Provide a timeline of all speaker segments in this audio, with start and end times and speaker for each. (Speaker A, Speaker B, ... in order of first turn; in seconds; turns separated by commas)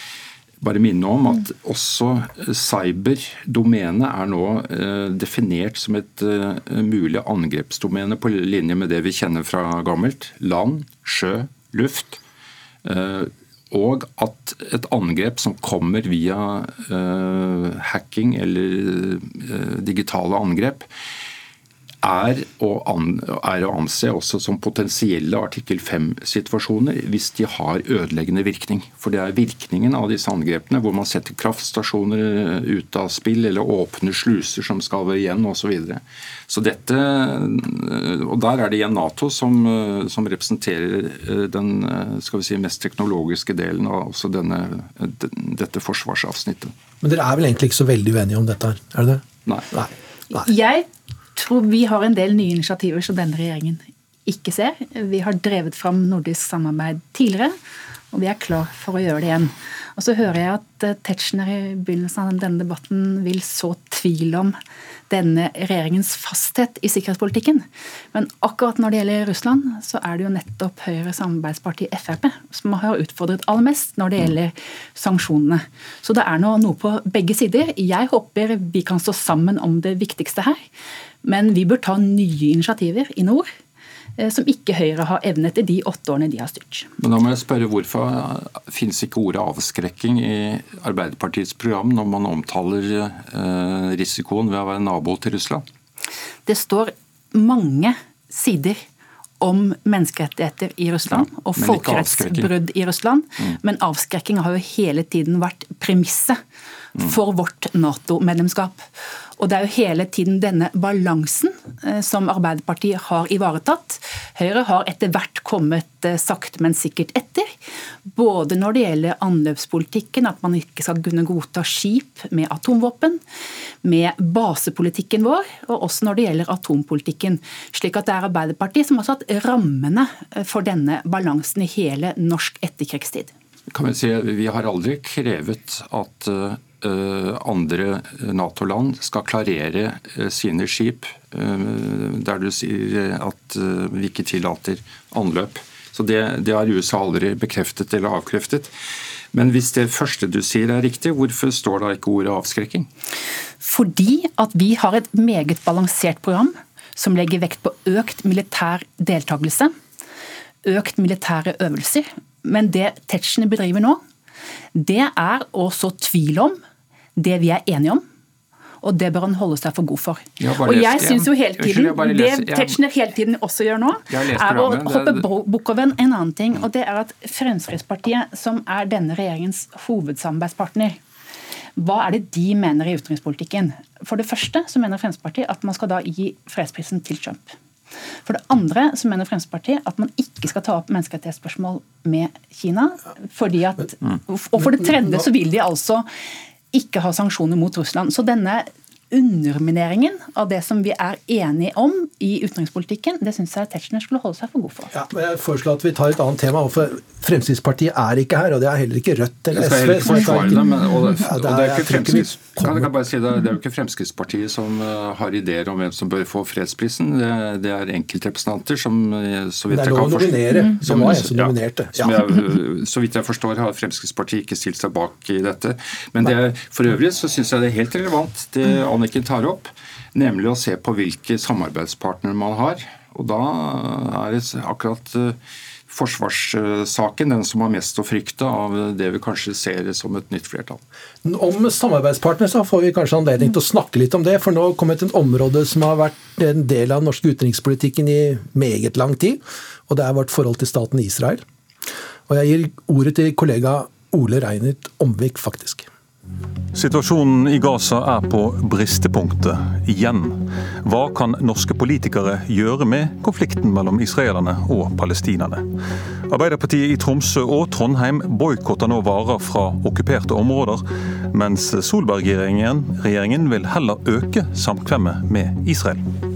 Speaker A: 0.6-12.2, Speaker A: 12.8-20.9, Speaker A: 22.0-46.7, Speaker B: 47.0-50.5, Speaker C: 50.3-57.5, Speaker C: 58.1-64.6, Speaker C: 65.1-80.6, Speaker C: 81.2-83.5, Speaker C: 84.2-86.9, Speaker A: 87.0-95.6, Speaker C: 96.5-98.8, Speaker C: 99.4-106.4, Speaker A: 101.1-102.5, Speaker C: 107.0-108.9, Speaker C: 109.4-117.5, Speaker C: 118.1-123.2, Speaker C: 123.8-133.3, Speaker A: 133.7-148.7, Speaker A: 149.3-152.9, Speaker C: 153.6-159.7, Speaker C: 160.7-164.0, Speaker C: 164.8-166.6, Speaker C: 167.2-168.0, Speaker C: 168.8-181.0, Speaker A: 170.4-172.8, Speaker A: 174.1-175.2, Speaker C: 181.8-187.6, Speaker C: 188.2-196.1, Speaker B: 194.7-195.2, Speaker C: 196.7-204.9, Speaker B: 204.9-212.9, Speaker A: 209.5-235.4, Speaker B: 219.7-222.2, Speaker A: 235.9-240.8, Speaker B: 241.2-251.4, Speaker B: 252.3-255.9, Speaker D: 256.7-265.7, Speaker D: 266.3-276.1